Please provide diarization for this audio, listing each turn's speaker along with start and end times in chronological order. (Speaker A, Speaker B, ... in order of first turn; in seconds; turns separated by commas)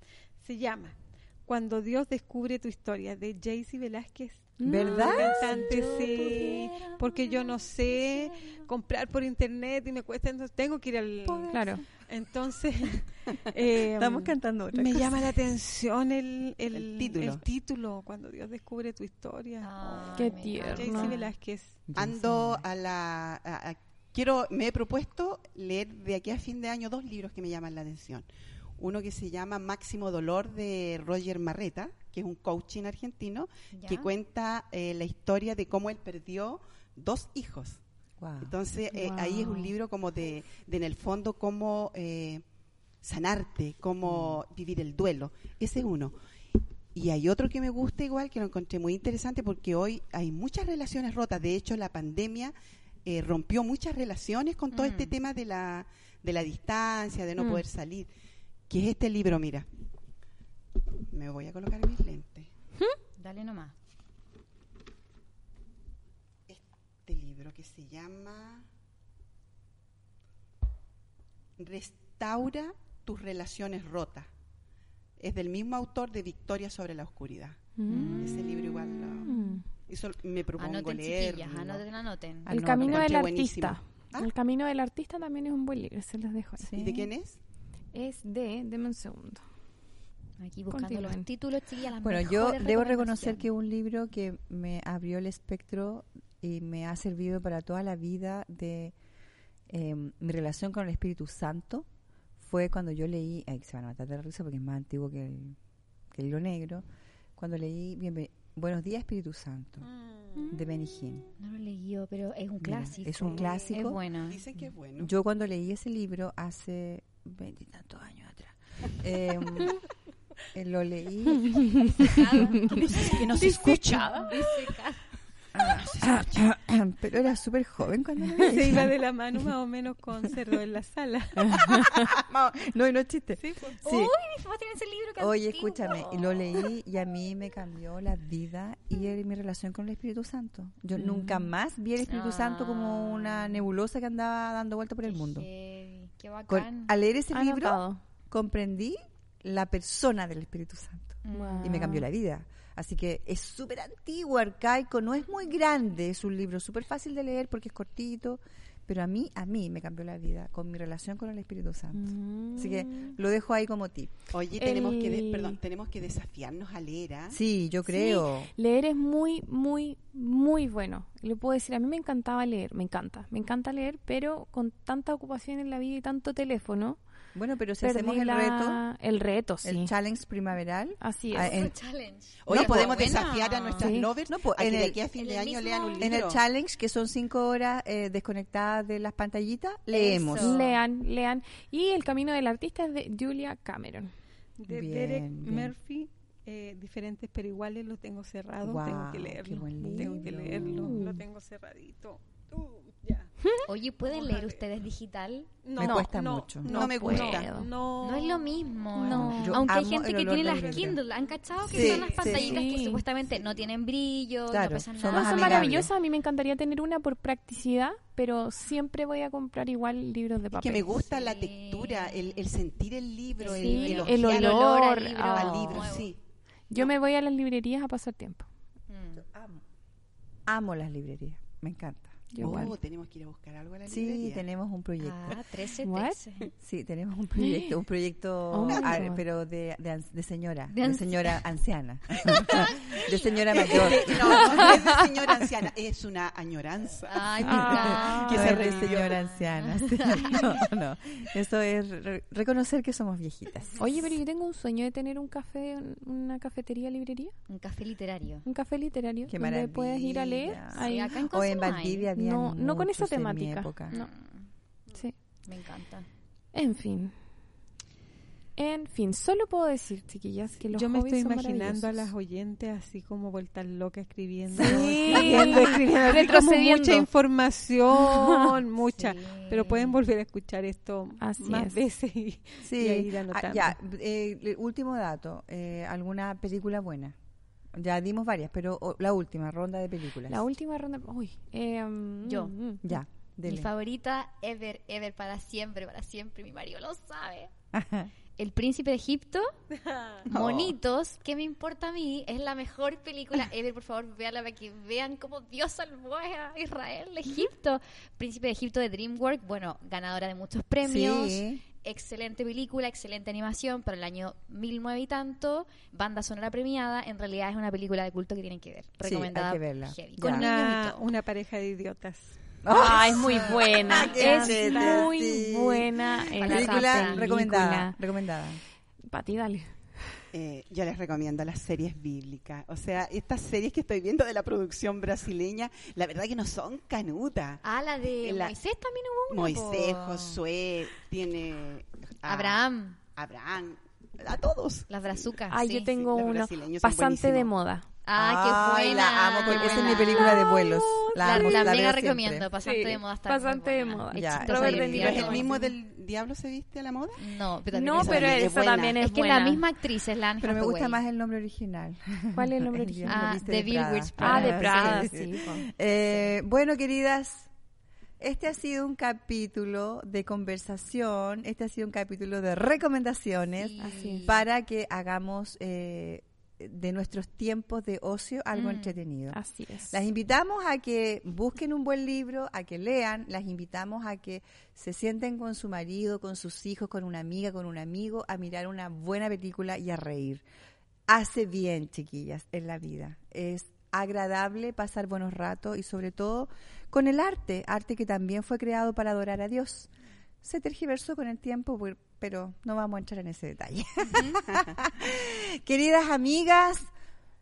Speaker A: 0.4-21.8, Speaker B: 4.6-5.6, Speaker C: 4.6-6.7, Speaker D: 5.6-7.0, Speaker C: 11.2-11.7, Speaker B: 11.5-11.8, Speaker C: 13.9-15.4, Speaker E: 16.7-17.4, Speaker D: 19.6-21.2, Speaker B: 20.1-21.3, Speaker C: 21.9-22.6, Speaker E: 21.9-28.3, Speaker E: 28.8-37.8, Speaker D: 33.7-34.1, Speaker C: 38.2-38.5, Speaker E: 38.4-42.4, Speaker B: 38.9-39.7, Speaker E: 43.0-46.1, Speaker C: 44.0-44.4, Speaker E: 46.9-52.5, Speaker E: 53.0-58.1, Speaker D: 54.7-55.1, Speaker B: 57.4-57.6, Speaker E: 58.7-59.6, Speaker E: 61.1-62.5, Speaker D: 63.2-63.7, Speaker E: 66.5-68.7, Speaker E: 71.6-74.3, Speaker E: 75.2-81.8, Speaker B: 77.8-78.3, Speaker D: 77.9-79.3, Speaker B: 79.2-79.7, Speaker D: 80.6-82.5, Speaker B: 82.5-86.7, Speaker C: 82.5-83.0, Speaker E: 82.5-84.3, Speaker C: 86.6-87.1, Speaker E: 86.7-87.4, Speaker B: 87.9-89.4, Speaker D: 90.4-93.4, Speaker B: 90.7-91.3, Speaker C: 92.0-98.9, Speaker C: 99.7-101.9, Speaker C: 102.4-105.6, Speaker C: 106.1-106.8, Speaker C: 107.4-109.9, Speaker A: 109.9-110.5, Speaker D: 110.3-110.6, Speaker C: 110.5-111.2, Speaker D: 111.4-114.4, Speaker C: 112.6-114.0, Speaker E: 113.3-113.5, Speaker E: 114.2-115.1, Speaker C: 115.0-119.8, Speaker C: 120.5-122.7, Speaker D: 121.8-125.0, Speaker E: 122.7-124.3, Speaker B: 123.3-124.3, Speaker C: 125.5-128.9, Speaker E: 125.5-126.5, Speaker A: 128.4-131.7, Speaker B: 131.5-132.1, Speaker C: 131.7-132.0, Speaker E: 132.1-132.5, Speaker C: 132.5-134.1, Speaker A: 133.4-133.8, Speaker D: 133.8-136.7, Speaker C: 135.2-145.4, Speaker B: 140.9-141.5, Speaker D: 142.0-143.6, Speaker D: 145.0-146.9, Speaker C: 146.5-164.1, Speaker B: 147.3-148.0, Speaker D: 151.2-152.0, Speaker B: 151.3-152.0, Speaker B: 161.9-163.2, Speaker E: 164.3-167.4, Speaker B: 164.6-165.6, Speaker C: 167.3-168.5, Speaker B: 167.8-177.0, Speaker C: 177.3-178.8, Speaker B: 177.8-179.9, Speaker C: 179.6-181.7, Speaker B: 181.0-181.6, Speaker D: 181.3-183.9, Speaker E: 182.4-186.4, Speaker C: 182.5-182.8, Speaker B: 183.8-184.1, Speaker C: 184.3-185.0, Speaker D: 185.1-186.2, Speaker C: 186.0-190.7, Speaker D: 189.9-190.8, Speaker B: 190.3-194.1, Speaker A: 194.6-203.3, Speaker C: 194.7-195.7, Speaker C: 198.6-201.0, Speaker B: 199.8-201.2, Speaker D: 203.6-205.5, Speaker A: 204.1-204.6, Speaker A: 205.6-209.3, Speaker C: 205.8-206.7, Speaker B: 205.8-206.1, Speaker B: 206.6-207.7, Speaker E: 206.7-207.5, Speaker D: 208.0-215.8, Speaker B: 208.9-209.6, Speaker C: 209.4-211.0, Speaker A: 210.3-211.0, Speaker C: 211.7-212.7, Speaker A: 211.7-212.4, Speaker E: 212.2-212.5, Speaker B: 212.3-213.0, Speaker C: 214.5-215.9, Speaker B: 215.1-221.0, Speaker E: 220.5-226.2, Speaker D: 220.9-222.4, Speaker D: 223.4-226.1, Speaker B: 223.4-226.0, Speaker B: 226.7-228.5, Speaker D: 228.9-229.2, Speaker C: 229.2-229.6, Speaker C: 230.5-232.7, Speaker B: 232.3-232.8, Speaker E: 232.4-234.4, Speaker C: 233.9-235.4, Speaker D: 235.0-236.5, Speaker B: 235.8-236.2, Speaker C: 236.6-244.8, Speaker B: 237.3-237.8, Speaker B: 238.5-239.2, Speaker D: 240.7-241.4, Speaker D: 242.2-244.8, Speaker E: 243.5-249.2, Speaker D: 247.1-250.6, Speaker B: 247.4-248.6, Speaker C: 247.4-253.8, Speaker B: 253.8-257.3, Speaker D: 257.5-258.4, Speaker B: 258.4-261.2, Speaker C: 259.3-263.9, Speaker D: 260.7-262.1, Speaker B: 262.1-264.1, Speaker D: 263.9-264.5, Speaker D: 265.5-266.1, Speaker B: 266.5-267.1, Speaker B: 268.6-272.1, Speaker A: 270.6-283.7, Speaker C: 274.6-276.6, Speaker B: 274.6-277.0, Speaker B: 278.0-278.6, Speaker D: 278.9-280.0, Speaker B: 281.2-281.8, Speaker C: 282.6-287.1, Speaker C: 287.7-290.4, Speaker B: 290.3-293.0, Speaker D: 292.2-292.5, Speaker C: 292.8-293.7, Speaker D: 293.4-297.5, Speaker C: 297.7-298.1, Speaker D: 298.4-299.5, Speaker A: 299.9-300.2, Speaker D: 300.2-321.0, Speaker E: 300.3-300.8, Speaker C: 310.8-311.6, Speaker C: 319.0-320.5, Speaker A: 320.2-322.4, Speaker C: 322.6-328.6, Speaker B: 322.7-328.0, Speaker D: 326.4-327.3, Speaker B: 329.1-330.2, Speaker E: 330.3-337.6, Speaker D: 337.6-340.4, Speaker E: 338.2-338.6, Speaker E: 339.3-345.4, Speaker D: 342.2-343.0, Speaker D: 344.9-345.9, Speaker B: 345.5-347.9, Speaker E: 345.9-347.5, Speaker D: 348.0-355.7, Speaker C: 348.1-352.4, Speaker B: 349.4-351.7, Speaker B: 352.6-355.6, Speaker C: 354.1-355.2, Speaker E: 354.6-357.2, Speaker D: 357.2-361.0, Speaker B: 357.7-359.6, Speaker E: 357.9-359.0, Speaker C: 360.4-367.5, Speaker B: 362.3-363.4, Speaker D: 363.1-365.6, Speaker B: 364.2-365.6, Speaker C: 368.2-379.4, Speaker D: 373.6-374.4, Speaker B: 373.8-374.2, Speaker D: 378.5-378.9, Speaker B: 379.3-379.9, Speaker C: 379.9-390.4, Speaker C: 391.1-399.9, Speaker C: 400.4-406.9